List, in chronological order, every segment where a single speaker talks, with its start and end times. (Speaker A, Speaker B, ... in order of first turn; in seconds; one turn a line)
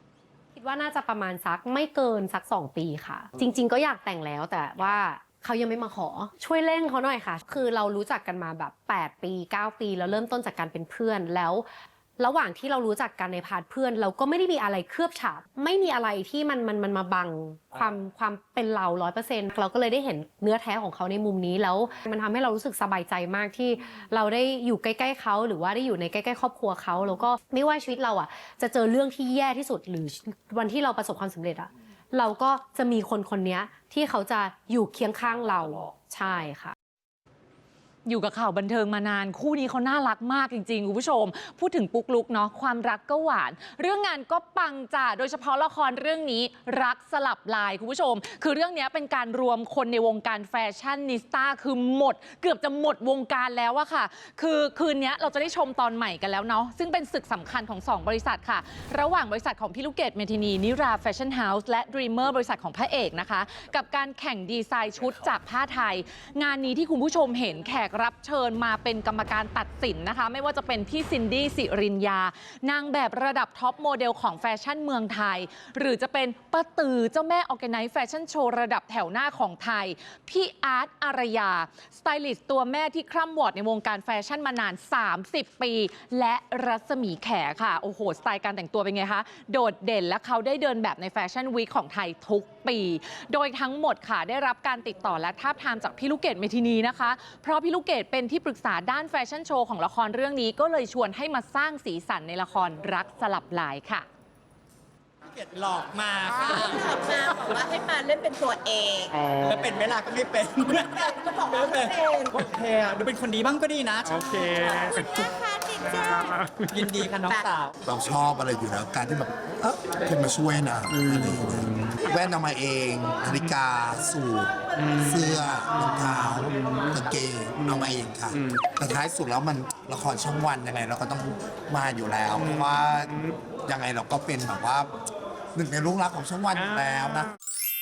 Speaker A: 0.5-11.7
Speaker A: 12.2-36.8
Speaker B: 38.0-104.1
Speaker C: 105.3-107.3
Speaker D: 106.7-109.1
Speaker C: 109.2-115.2
Speaker D: 111.3-112.3
Speaker D: 114.8-116.4
Speaker C: 116.5-117.8
Speaker E: 117.8-134.9
Speaker E: 135.6-137.3